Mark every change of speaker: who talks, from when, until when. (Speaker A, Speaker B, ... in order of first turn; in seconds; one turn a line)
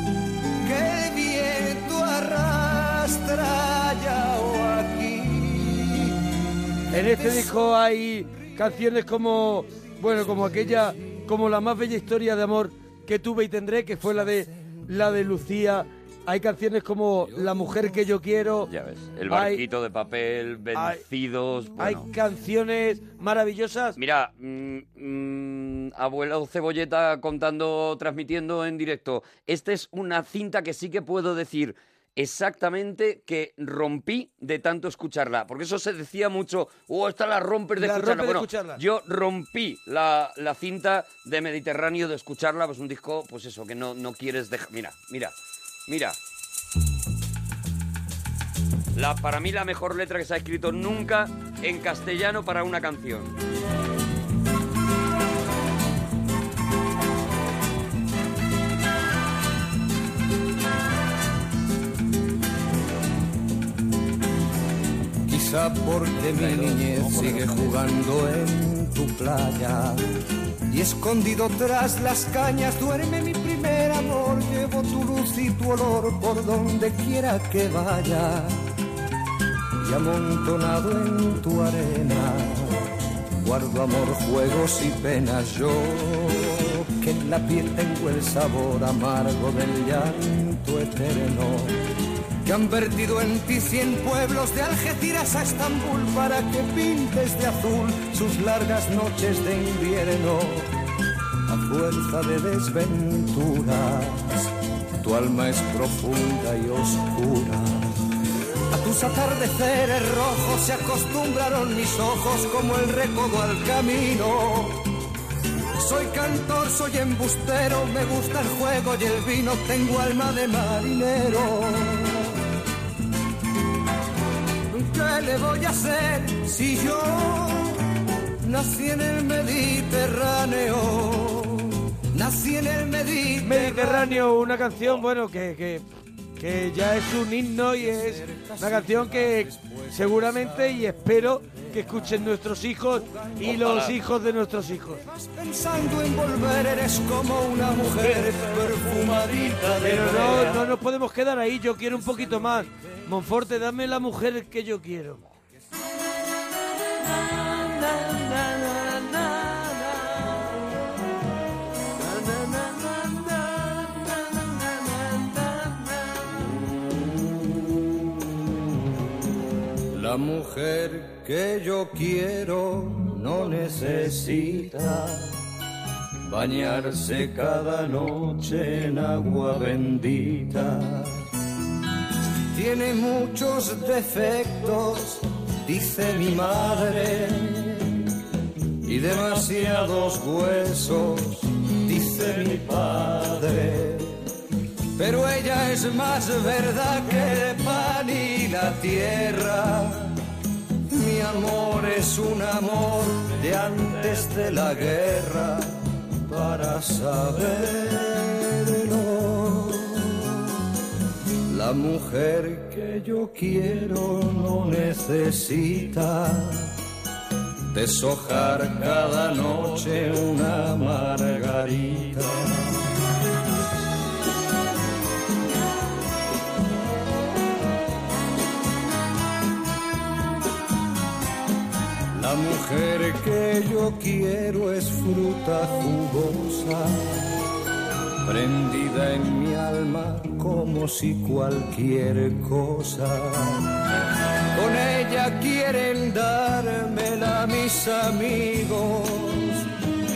Speaker A: 0.6-7.5
Speaker B: 6.9-18.7
Speaker A: 10.2-11.2
Speaker A: 14.0-15.2
Speaker A: 17.3-17.7
Speaker C: 18.7-22.1
Speaker B: 19.3-19.6
Speaker B: 20.8-21.0
Speaker B: 21.8-24.0
Speaker C: 24.0-45.4
Speaker B: 37.8-38.8
Speaker C: 45.9-46.2
Speaker C: 49.0-53.3
Speaker A: 65.3-70.1
Speaker C: 66.3-67.8
Speaker A: 70.7-78.7
Speaker A: 79.8-91.8
Speaker A: 92.4-100.8
Speaker A: 101.5-108.0
Speaker A: 108.7-114.9
Speaker A: 115.8-122.3
Speaker A: 124.7-127.9
Speaker A: 128.4-134.2
Speaker B: 133.4-135.8
Speaker B: 136.4-145.0
Speaker A: 137.7-140.8
Speaker A: 141.6-142.1
Speaker A: 142.9-143.4
Speaker C: 143.4-144.0
Speaker A: 145.1-150.7
Speaker B: 149.8-155.2
Speaker A: 157.4-159.9
Speaker A: 162.0-165.6
Speaker A: 166.2-167.8
Speaker A: 169.9-175.4
Speaker A: 176.2-181.3
Speaker A: 182.5-188.1
Speaker A: 188.8-194.2
Speaker A: 195.0-200.2
Speaker A: 200.9-210.3
Speaker A: 211.5-216.7
Speaker A: 217.7-222.8
Speaker A: 232.1-237.4
Speaker A: 238.2-243.8
Speaker A: 244.6-249.7